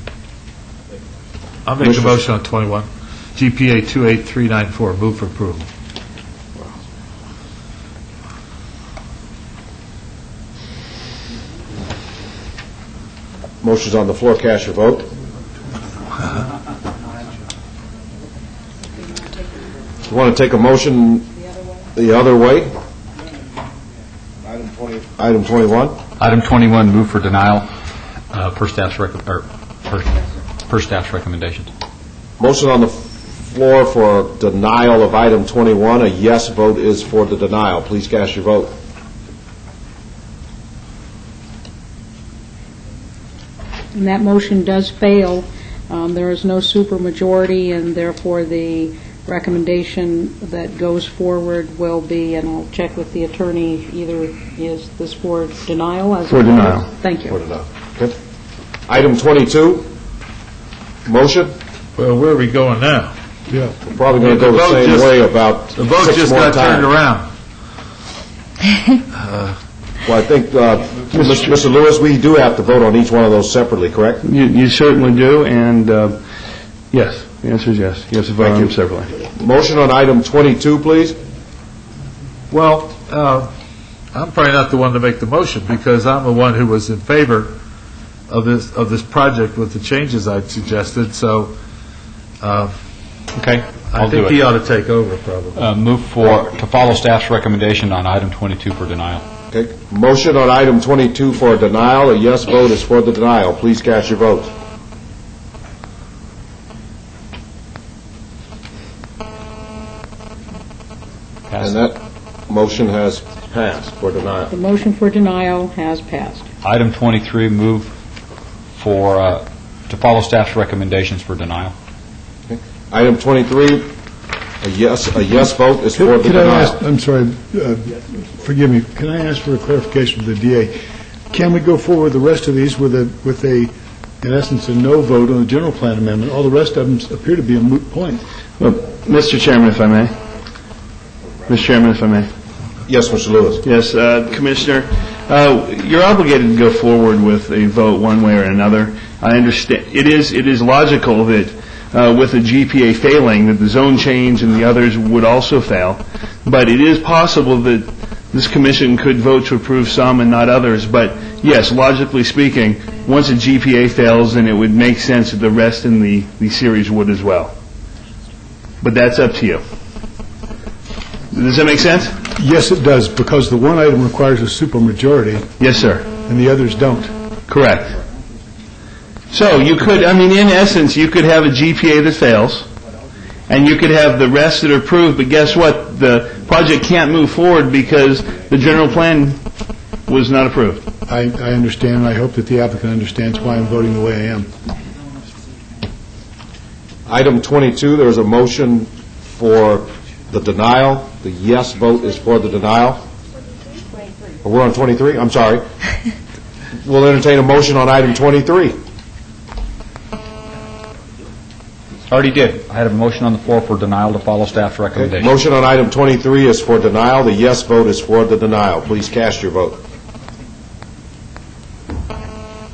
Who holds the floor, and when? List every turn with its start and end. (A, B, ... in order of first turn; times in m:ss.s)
0:01.6-0:05.7 A
0:01.8-0:02.2 B
0:13.6-0:15.1 B
0:20.1-0:21.3 B
0:21.9-0:22.7 B
0:24.4-0:26.0 B
0:26.2-0:27.7 C
0:28.3-0:31.7 C
0:32.4-0:38.7 B
0:43.9-0:57.4 D
0:56.3-0:56.9 E
0:57.2-0:58.1 B
0:58.9-0:59.9 B
1:01.0-1:01.5 B
1:02.0-1:03.1 A
1:03.9-1:06.9 B
1:04.2-1:05.2 A
1:05.7-1:07.3 A
1:09.1-1:09.6 A
1:10.0-1:14.2 B
1:11.1-1:11.5 E
1:14.2-1:16.2 E
1:16.9-1:19.1 E
1:18.4-1:18.7 B
1:19.3-1:21.2 B
1:22.5-1:23.5 A
1:24.1-1:27.6 A
1:28.3-1:31.6 A
1:32.4-1:32.7 A
1:33.3-1:34.4 C
1:33.9-1:35.6 A
1:35.6-1:39.2 C
1:39.5-1:44.5 B
1:51.5-1:51.7 C
1:51.6-1:54.5 B
1:54.5-1:56.4 D
1:56.6-1:57.9 C
1:58.8-2:01.7 C
2:02.5-2:03.9 B
2:04.6-2:06.8 B
2:06.0-2:10.7 F
2:11.3-2:18.2 F
2:18.6-2:20.1 E
2:21.5-2:22.3 E
2:22.9-2:23.6 B
2:23.6-2:47.5 E
2:48.8-2:49.6 E
2:51.3-2:52.2 E
2:52.3-2:55.5 F
2:55.6-2:56.1 E
2:56.2-2:57.2 F
2:57.5-2:58.0 E
2:59.3-3:02.7 E
3:03.5-3:09.4 E
3:10.1-3:10.8 E
3:11.1-3:14.5 F
3:17.1-3:23.0 B
3:24.4-3:25.6 B
3:26.8-3:28.8 B
3:32.1-3:35.3 C
3:34.9-3:39.8 B